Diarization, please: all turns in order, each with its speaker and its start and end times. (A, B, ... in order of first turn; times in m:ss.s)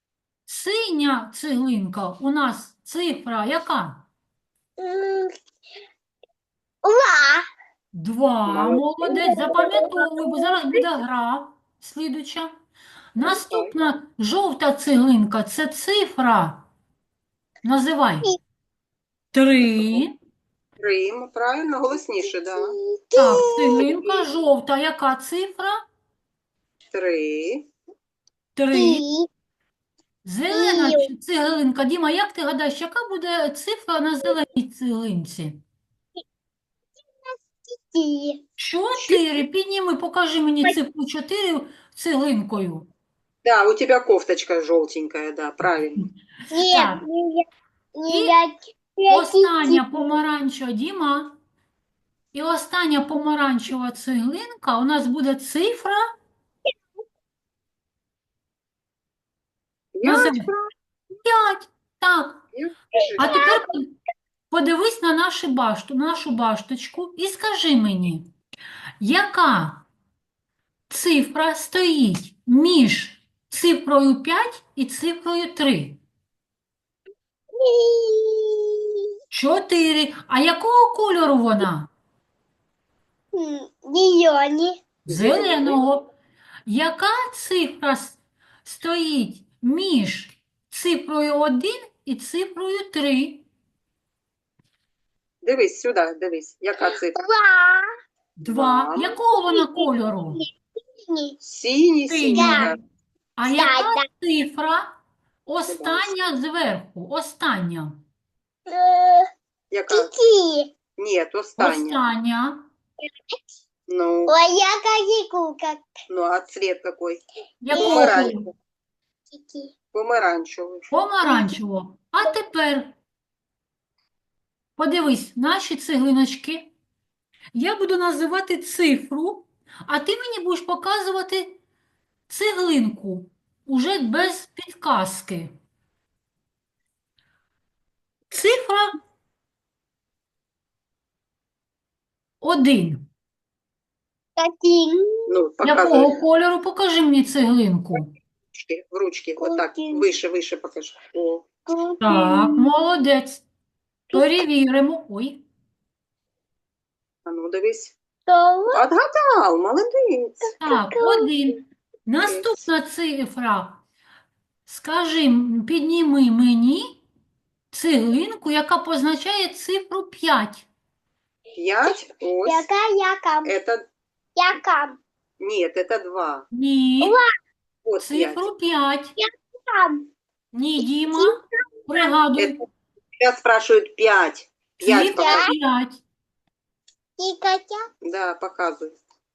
0:00.5-0:04.1 A
0:04.8-0:05.3 B
0:06.8-0:07.5 B
0:07.9-0:12.5 A
0:08.5-0:09.6 C
0:09.2-0:10.5 B
0:13.2-0:16.7 A
0:13.2-0:13.8 C
0:17.6-0:18.3 A
0:19.3-0:20.1 A
0:20.8-0:22.8 C
0:22.7-0:23.9 B
0:23.2-0:25.8 A
0:26.9-0:27.7 C
0:28.6-0:29.0 A
0:28.7-0:29.3 B
0:30.2-0:35.6 A
0:30.5-0:31.1 B
0:37.3-0:38.4 B
0:38.6-0:42.9 A
0:43.4-0:46.1 C
0:46.5-0:47.4 B
0:46.6-0:47.0 A
0:48.0-0:50.1 B
0:48.1-0:48.4 A
0:49.1-0:51.4 A
0:52.3-0:56.0 A
1:00.0-1:00.7 C
1:00.0-1:00.5 A
1:01.2-1:02.4 A
1:02.5-1:03.2 C
1:03.2-1:04.0 A
1:03.3-1:03.6 B
1:04.5-1:08.3 A
1:09.0-1:09.9 A
1:10.9-1:16.0 A
1:17.6-1:19.0 B
1:19.3-1:21.9 A
1:23.3-1:24.8 B
1:25.0-1:26.0 A
1:25.1-1:25.8 C
1:26.7-1:33.5 A
1:35.4-1:37.2 C
1:37.2-1:37.9 B
1:38.4-1:40.4 A
1:38.5-1:39.1 C
1:39.5-1:40.4 B
1:41.1-1:41.4 B
1:41.4-1:42.8 C
1:42.1-1:42.8 A
1:42.3-1:42.7 B
1:43.4-1:48.0 A
1:43.6-1:44.0 B
1:45.7-1:46.1 C
1:48.7-1:49.3 B
1:49.7-1:50.1 C
1:49.9-1:50.8 B
1:51.0-1:52.0 C
1:51.6-1:52.7 A
1:53.9-1:54.3 C
1:54.3-1:55.9 B
1:56.1-1:58.5 C
1:57.6-1:58.5 A
1:57.7-1:58.3 B
1:59.3-1:59.7 B
1:59.9-2:00.9 C
2:00.9-2:03.0 A
2:01.2-2:01.5 B
2:04.8-2:06.7 A
2:07.5-2:11.6 A
2:12.3-2:15.5 A
2:18.3-2:18.9 A
2:22.4-2:23.1 A
2:24.4-2:25.3 B
2:25.3-2:26.2 C
2:25.6-2:28.1 A
2:28.5-2:31.4 C
2:29.4-2:30.1 B
2:31.7-2:32.7 B
2:32.0-2:33.4 A
2:34.1-2:35.4 A
2:37.3-2:38.0 C
2:38.3-2:38.8 B
2:38.7-2:40.6 C
2:40.6-2:43.8 A
2:40.6-2:41.3 B
2:42.2-2:42.6 C
2:44.7-2:47.0 A
2:47.7-2:50.7 A
2:51.5-2:52.7 C
2:52.4-2:53.5 B
2:53.4-2:53.8 C
2:54.4-2:55.0 B
2:55.4-2:56.5 C
2:56.5-2:57.2 A
2:57.8-2:58.4 C
2:58.0-2:59.2 A
2:59.2-3:00.1 B
3:00.5-3:02.6 A
3:01.2-3:01.4 B
3:03.2-3:05.6 C
3:04.8-3:06.0 A
3:05.2-3:05.5 B
3:07.2-3:07.8 B
3:08.0-3:09.0 C